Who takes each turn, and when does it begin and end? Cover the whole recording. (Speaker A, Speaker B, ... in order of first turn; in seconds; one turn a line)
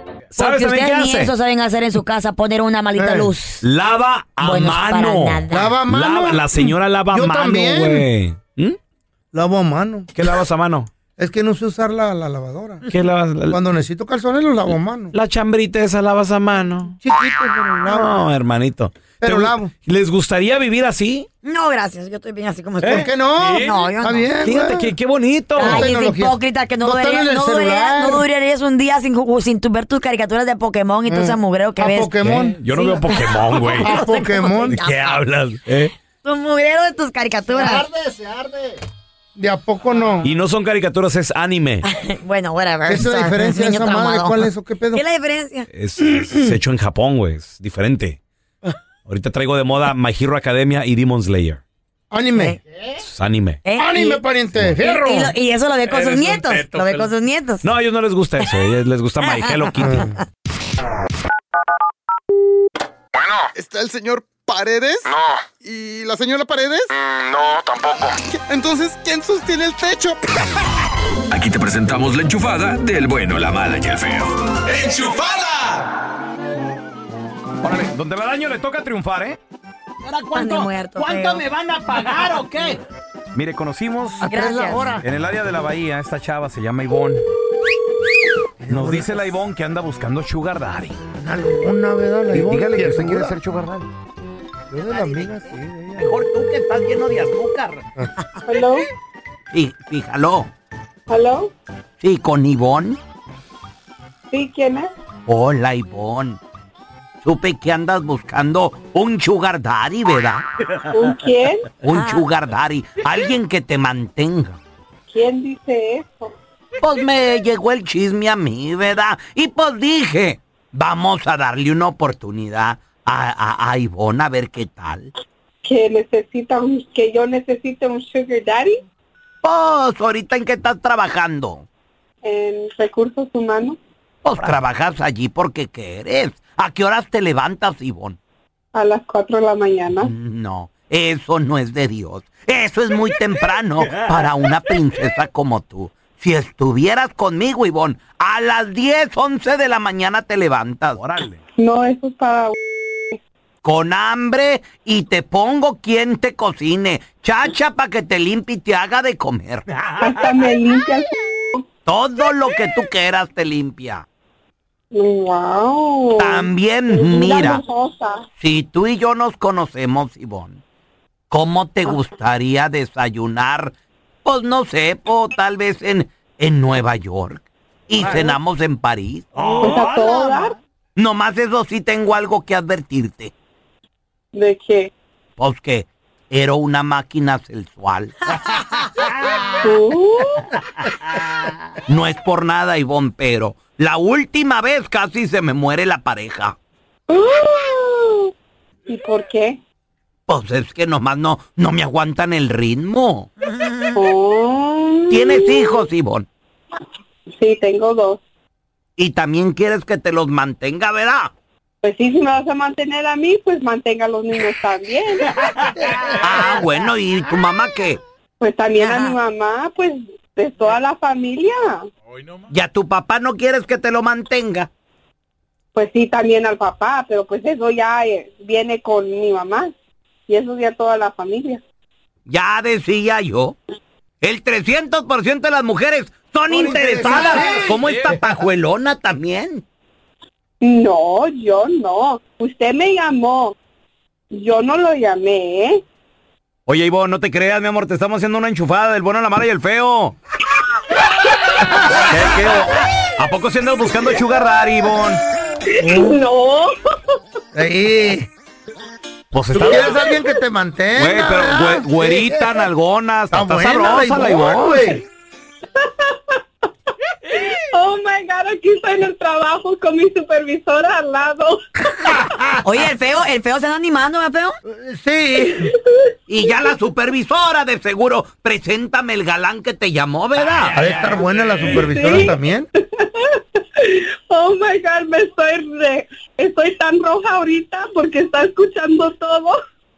Speaker A: 0.3-1.3
Speaker B: 0.4-3.6
Speaker C: 3.0-3.3
Speaker A: 3.6-8.8
Speaker B: 4.4-5.8
Speaker C: 5.5-8.1
Speaker C: 9.3-10.1
Speaker A: 10.2-10.9
Speaker C: 11.2-12.8
Speaker A: 12.9-13.6
Speaker C: 13.5-15.1
Speaker A: 15.1-17.0
Speaker C: 17.0-18.3
Speaker A: 17.9-21.3
Speaker C: 19.2-19.7
Speaker B: 21.4-24.3
Speaker A: 22.8-26.0
Speaker C: 22.8-25.0
Speaker C: 25.6-28.2
Speaker B: 25.6-35.2
Speaker C: 31.1-32.6
Speaker A: 32.2-35.9
Speaker C: 33.8-34.8
Speaker B: 36.2-37.9
Speaker C: 37.5-38.8
Speaker C: 39.4-40.3
Speaker A: 40.2-41.9
Speaker B: 41.8-45.7
Speaker C: 42.9-45.0
Speaker A: 45.7-48.2
Speaker C: 46.0-46.5
Speaker A: 49.1-51.6
Speaker C: 52.1-52.6
Speaker A: 53.0-53.6
Speaker B: 53.6-54.2
Speaker C: 53.8-55.3
Speaker B: 54.8-57.7
Speaker A: 57.6-60.1
Speaker B: 59.2-60.2
Speaker C: 59.8-60.1
Speaker D: 63.5-70.2
Speaker E: 71.3-75.5
Speaker A: 77.6-79.4
Speaker F: 80.1-82.8
Speaker B: 80.3-81.5
Speaker A: 80.4-81.3
Speaker A: 81.9-82.4
Speaker A: 83.3-87.2
Speaker C: 84.2-85.0
Speaker B: 84.3-85.0
Speaker C: 88.6-89.3
Speaker A: 88.7-91.0
Speaker C: 91.2-93.4
Speaker A: 92.3-93.9
Speaker C: 94.7-96.2
Speaker F: 94.9-95.4
Speaker F: 96.0-97.8
Speaker G: 98.5-98.8
Speaker F: 99.5-100.5
Speaker G: 101.1-101.5
Speaker F: 102.0-103.0
Speaker G: 104.3-104.9
Speaker F: 105.3-106.4
Speaker F: 107.2-110.5
Speaker G: 110.9-111.7
Speaker F: 111.8-114.6
Speaker B: 111.9-112.2
Speaker G: 115.1-116.3
Speaker F: 116.8-125.1
Speaker G: 125.7-128.8
Speaker F: 129.4-131.7
Speaker G: 132.2-133.8
Speaker F: 134.2-138.2
Speaker G: 138.8-140.1
Speaker F: 140.0-151.0
Speaker A: 151.0-151.4
Speaker G: 151.6-152.6
Speaker F: 153.6-159.7
Speaker A: 159.7-160.3
Speaker G: 160.0-161.6
Speaker F: 161.9-164.1
Speaker G: 164.9-168.2
Speaker F: 166.2-167.6
Speaker F: 168.4-170.6
Speaker F: 171.3-173.7
Speaker F: 174.2-179.6
Speaker A: 178.0-178.3
Speaker A: 179.3-180.4
Speaker G: 179.6-180.6
Speaker F: 181.0-183.3
Speaker G: 184.3-184.9
Speaker F: 185.4-188.2
Speaker G: 189.6-190.5
Speaker F: 191.9-196.6
Speaker G: 197.1-198.3
Speaker G: 198.9-199.6
Speaker F: 200.3-203.3
Speaker G: 203.9-205.8
Speaker F: 205.1-206.3
Speaker G: 207.3-208.2
Speaker F: 209.0-211.3
Speaker G: 211.8-215.4
Speaker F: 216.2-218.0
Speaker G: 218.4-221.8
Speaker B: 218.8-219.2
Speaker F: 222.5-224.7
Speaker G: 225.8-229.7
Speaker G: 230.3-231.6
Speaker F: 232.3-233.6
Speaker F: 234.2-239.6
Speaker C: 236.5-238.2
Speaker A: 236.7-238.2
Speaker G: 240.6-243.6
Speaker G: 244.3-245.8
Speaker F: 246.7-250.2
Speaker A: 251.9-255.2
Speaker G: 255.8-256.8
Speaker C: 257.5-258.3
Speaker A: 259.3-260.0
Speaker C: 259.5-262.7
Speaker A: 261.0-262.1
Speaker F: 261.7-264.8
Speaker C: 263.3-265.0
Speaker G: 265.8-266.1
Speaker G: 267.3-272.2
Speaker C: 272.1-272.5
Speaker B: 272.6-274.6
Speaker C: 274.7-275.7
Speaker F: 276.3-280.8
Speaker C: 280.7-282.7
Speaker G: 281.8-289.6